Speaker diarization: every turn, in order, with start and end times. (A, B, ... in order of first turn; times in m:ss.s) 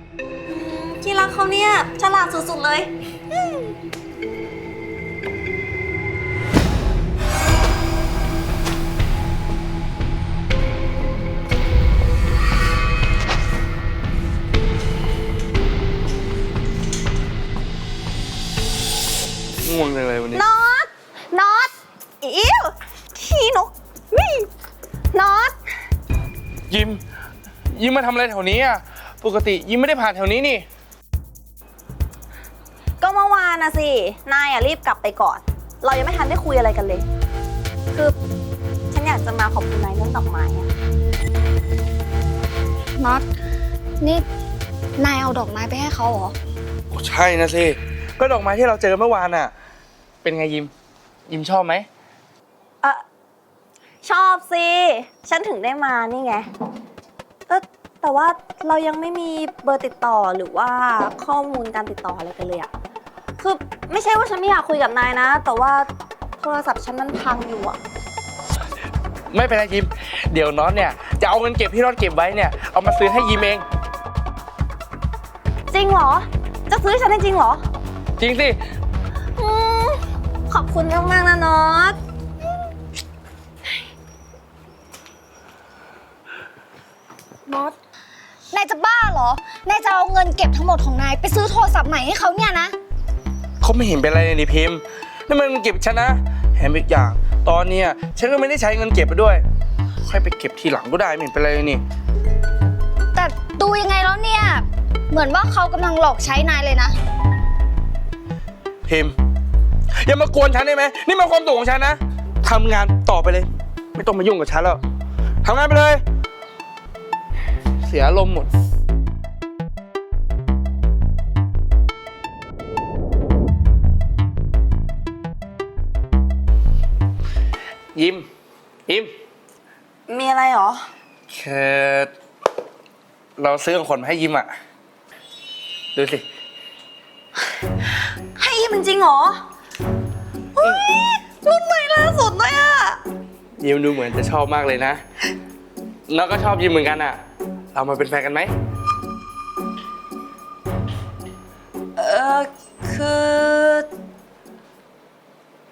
0:00.5-0:02.9 A
0:19.6-0:20.4 B
0:20.3-0:24.5 A
0:25.1-0:25.6 A
0:26.7-0:27.0 B
0:27.7-0:30.6 B
0:33.0-0:37.0 A
0:38.9-0:40.7 A
0:43.0-0:43.3 C
0:44.0-0:44.3 C
0:45.0-0:46.4 C
0:46.9-0:49.5 B
0:50.2-0:50.7 B
0:51.3-0:51.9 B
0:54.0-0:56.5 A
0:57.5-1:02.7 A
1:03.4-1:05.9 A
1:06.4-1:07.8 A
1:09.3-1:13.6 B
1:15.7-1:17.6 A
1:18.2-1:18.6 B
1:19.4-1:22.0 A
1:27.5-1:27.8 C
1:28.5-1:32.8 C
1:33.6-1:39.4 B
1:40.0-1:41.8 B
1:43.1-1:47.0 C
1:48.9-1:49.2 B
1:50.0-1:54.8 B
1:55.4-1:56.0 B
1:57.8-1:58.5 B
2:07.9-2:08.2 B
2:10.1-2:10.9 A
2:11.3-2:12.1 B
2:13.4-2:14.5 B
2:15.9-2:16.2 B
2:18.4-2:19.4 A
2:20.6-2:23.0 A
2:23.6-2:25.0 B
2:26.1-2:27.2 B
2:27.7-2:28.5 B
2:32.0-2:33.9 A